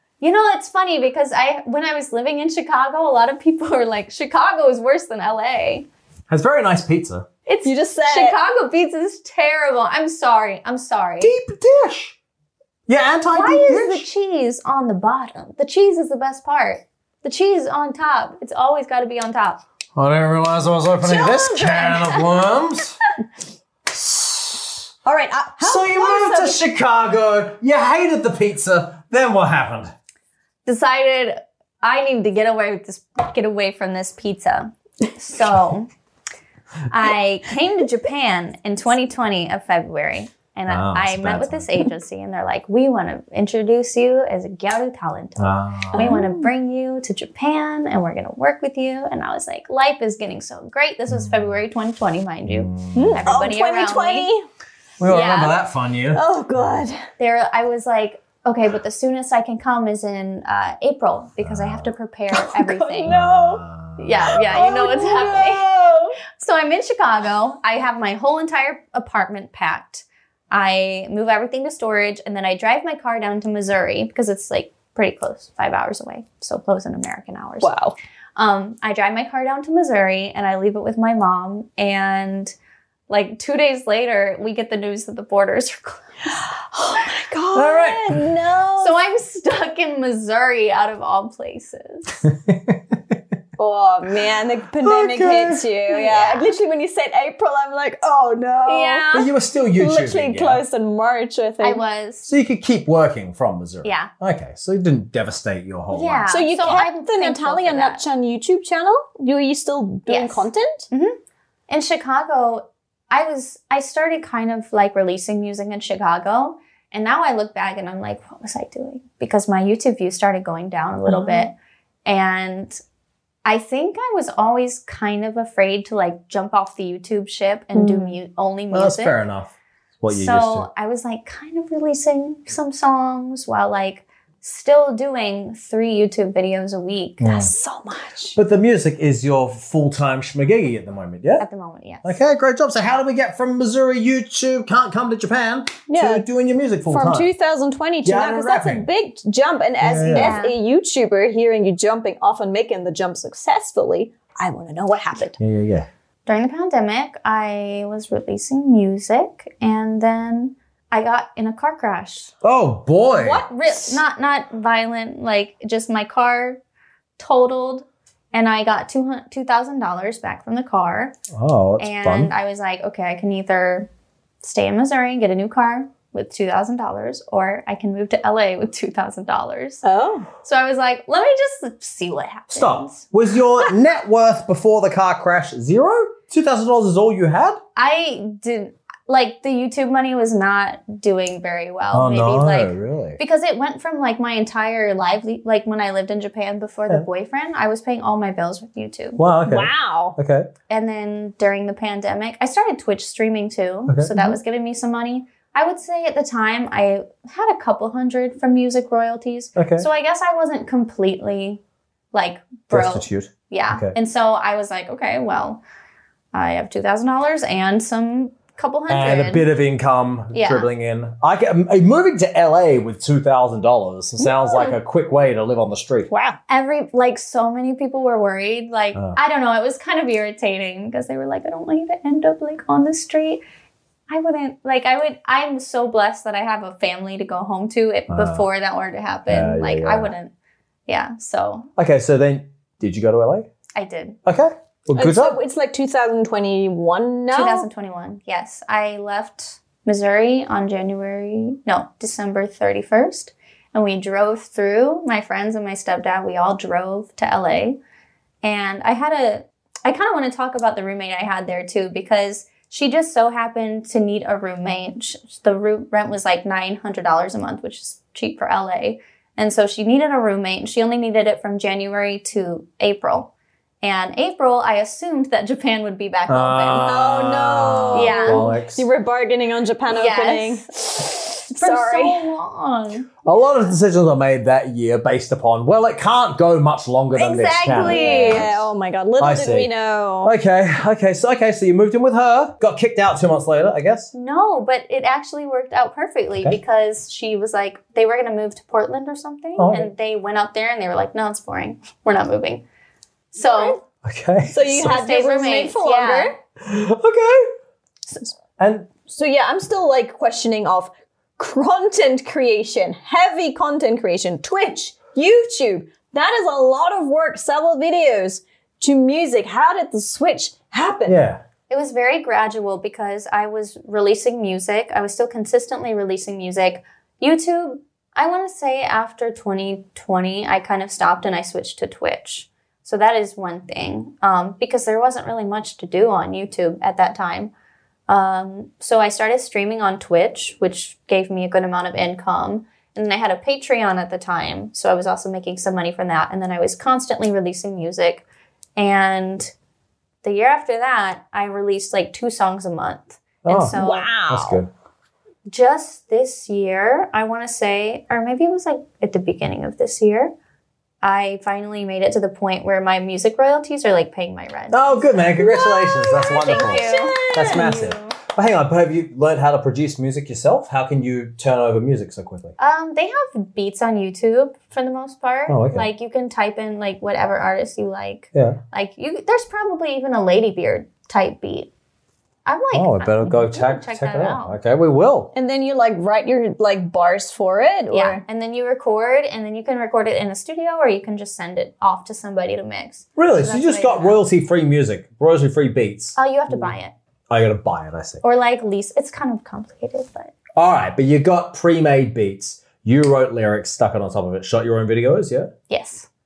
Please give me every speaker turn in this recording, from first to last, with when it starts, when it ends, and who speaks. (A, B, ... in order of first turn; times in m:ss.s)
0:00.2-0:05.8 A
0:06.3-0:07.3 B
0:07.4-0:11.3 A
0:07.6-0:08.4 C
0:11.2-0:12.2 B
0:12.9-0:14.0 B
0:13.3-0:19.6 A
0:20.0-0:23.0 B
0:21.0-0:22.2 C
0:23.9-0:24.8 B
0:25.0-0:26.6 C
0:25.6-0:29.9 B
0:30.6-0:35.9 A
0:36.9-0:54.3 A
0:40.7-0:41.7 B
0:45.4-0:46.2 B
0:45.9-0:46.5 C
0:52.5-0:53.3 B
0:52.9-0:54.4 C
0:55.0-0:56.2 B
0:55.0-0:55.6 A
0:56.1-0:57.0 C
0:57.2-1:03.2 A
1:01.4-1:01.9 B
1:02.3-1:03.6 C
1:03.1-1:04.6 B
1:04.0-1:05.7 A
1:04.5-1:06.2 C
1:06.4-1:17.7 A
1:17.6-1:17.9 C
1:18.4-1:22.5 A
1:23.1-1:26.1 A
1:26.3-1:29.0 C
1:27.5-1:28.2 B
1:28.8-1:32.2 A
1:32.2-1:33.0 B
1:33.6-1:39.1 C
1:34.8-1:35.7 B
1:35.9-1:36.6 A
1:38.6-1:39.3 A
1:39.1-1:40.6 B
1:39.8-1:41.8 C
1:41.6-1:42.3 A
1:42.2-1:46.3 B
1:43.8-1:44.1 A
1:45.9-1:48.0 A
1:46.3-1:50.9 C
1:50.1-1:51.2 A
1:51.7-2:01.5 A
2:01.0-2:01.5 C
2:02.0-2:02.8 A
2:03.4-2:09.2 A
2:07.7-2:08.2 C
2:08.7-2:10.7 B
2:10.1-2:17.2 A
2:17.2-2:17.5 B
2:17.2-2:18.4 C
2:18.4-2:21.4 B
2:21.4-2:22.2 A
2:22.0-2:27.3 B
2:25.9-2:26.2 C
2:26.9-2:35.4 C
2:28.0-2:28.9 B
2:29.8-2:30.4 B
2:30.1-2:30.6 A
2:35.4-2:35.9 B
2:36.2-2:42.3 A
2:42.4-2:43.4 B
2:43.2-2:46.6 A
2:47.2-2:51.1 A
2:51.3-2:52.3 B
2:51.8-2:53.9 A
2:54.4-2:59.8 A
2:59.8-3:00.3 C
3:00.4-3:03.0 A
3:02.5-3:07.6 B
3:07.8-3:19.2 A
3:11.9-3:13.2 B
3:19.2-3:20.5 B
3:19.4-3:20.2 C
3:20.7-3:31.6 A
3:23.9-3:24.2 B
3:29.6-3:29.9 B
3:32.1-3:35.6 A
3:32.7-3:33.9 B
3:36.3-3:39.4 A
3:38.9-3:46.1 B
3:40.3-3:40.6 A
3:44.2-3:44.7 C
3:46.1-3:46.4 C
3:46.5-3:53.4 A
3:54.1-4:00.3 A
3:58.1-3:58.4 B
3:59.3-4:00.1 B
4:00.9-4:01.7 A
4:01.8-4:03.5 B
4:03.7-4:04.2 A
4:04.2-4:05.4 B
4:04.9-4:07.6 C
4:07.3-4:17.8 A
4:18.4-4:33.3 A
4:33.8-4:36.9 A
4:36.3-4:38.9 B
4:36.7-4:42.3 C
4:37.9-4:38.5 A
4:39.9-4:40.7 A
4:41.6-4:43.2 A
4:43.2-4:48.7 B
4:47.1-4:48.5 A
4:47.7-4:50.3 C
4:49.2-4:54.1 B
4:54.1-5:02.6 A
4:59.6-4:59.9 B
5:03.3-5:03.8 A
5:03.4-5:03.8 C
5:04.0-5:04.9 B
5:04.5-5:06.4 C
5:04.6-5:06.4 A
5:06.6-5:07.5 B
5:08.6-5:08.9 B
5:09.1-5:21.2 C
5:21.1-5:21.4 B
5:21.7-5:37.5 A
5:38.1-5:48.2 A
5:48.8-5:49.5 A
5:50.2-5:54.1 A
5:53.4-5:53.8 B
5:53.7-5:54.6 C
5:54.3-5:54.7 B
5:55.5-6:00.3 A
6:01.0-6:08.2 A
6:04.7-6:12.5 B
6:06.4-6:07.7 C
6:12.6-6:21.7 A
6:15.5-6:15.9 B
6:18.3-6:18.6 B
6:22.4-6:24.6 A
6:22.7-6:25.3 B
6:25.3-6:28.2 C
6:27.9-6:34.2 A
6:33.2-6:36.7 B
6:36.2-6:36.9 A
6:37.3-6:38.2 B
6:38.2-6:40.3 A
6:40.6-6:45.5 B
6:45.7-6:46.1 A